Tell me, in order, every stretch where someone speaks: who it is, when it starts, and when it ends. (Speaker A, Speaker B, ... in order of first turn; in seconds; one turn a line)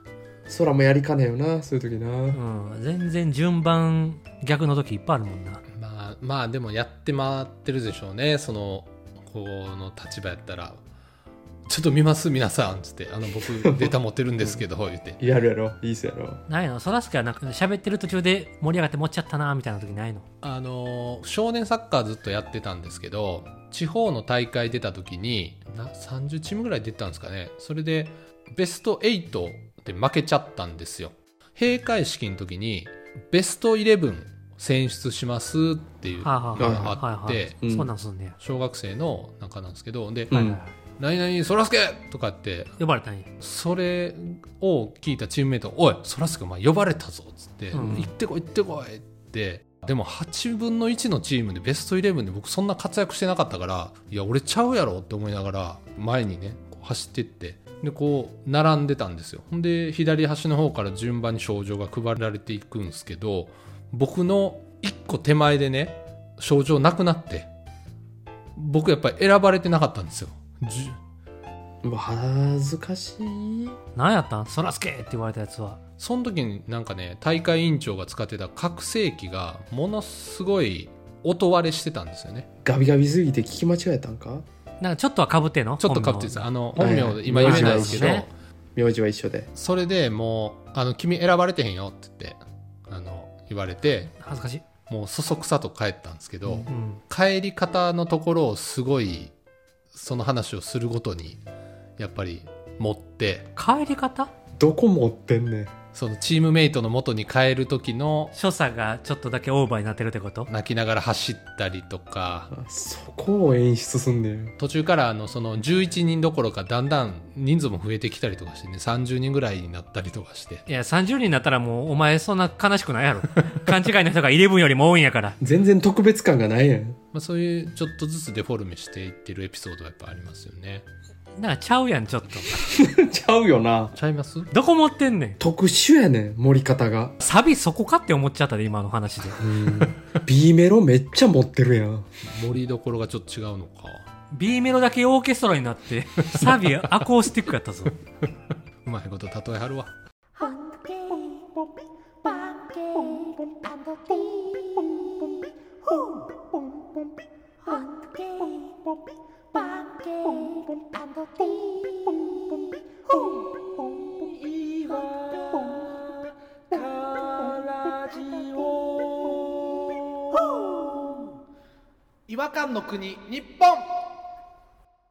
Speaker A: 0.5-2.4
Speaker B: 2.3-5.6
Speaker C: 5.7-10.8
Speaker C: 11.7-15.2
Speaker A: 13.6-14.6
Speaker A: 15.2-16.4
Speaker B: 16.5-20.2
Speaker C: 20.4-37.6
Speaker B: 36.2-38.4
Speaker A: 36.6-37.0
Speaker A: 37.6-37.9
Speaker C: 38.4-40.3
Speaker A: 40.3-40.6
Speaker B: 40.3-40.7
Speaker C: 41.0-42.7
Speaker B: 42.8-43.3
Speaker C: 43.4-67.5
Speaker B: 47.7-48.1
Speaker C: 68.5-71.0
Speaker A: 71.8-73.8
Speaker B: 73.9-75.8
Speaker C: 76.0-82.5
Speaker A: 82.6-84.4
Speaker B: 84.8-88.3
Speaker C: 85.8-88.3
Speaker A: 86.8-88.2
Speaker A: 88.8-89.5
Speaker C: 89.5-94.2
Speaker B: 94.2-94.6
Speaker C: 94.9-99.3
Speaker B: 96.7-97.0
Speaker C: 99.9-101.4
Speaker C: 102.0-103.5
Speaker B: 103.5-104.3
Speaker A: 104.6-105.7
Speaker C: 105.9-108.3
Speaker B: 108.3-110.5
Speaker C: 110.5-112.5
Speaker A: 112.5-114.5
Speaker C: 114.6-120.6
Speaker B: 120.7-125.4
Speaker A: 125.4-127.0
Speaker C: 127.1-130.8
Speaker B: 131.4-132.6
Speaker A: 132.6-133.9
Speaker C: 133.9-134.5
Speaker B: 134.5-135.4
Speaker A: 135.4-137.2
Speaker B: 137.2-139.4
Speaker A: 139.4-142.1
Speaker C: 142.3-144.1
Speaker B: 144.3-148.0
Speaker C: 146.3-146.8
Speaker C: 148.8-149.9
Speaker B: 150.4-151.4
Speaker B: 152.2-154.7
Speaker B: 157.7-158.7
Speaker B: 159.8-160.7
Speaker B: 161.4-161.9
Speaker C: 168.6-169.0
Speaker C: 172.3-173.8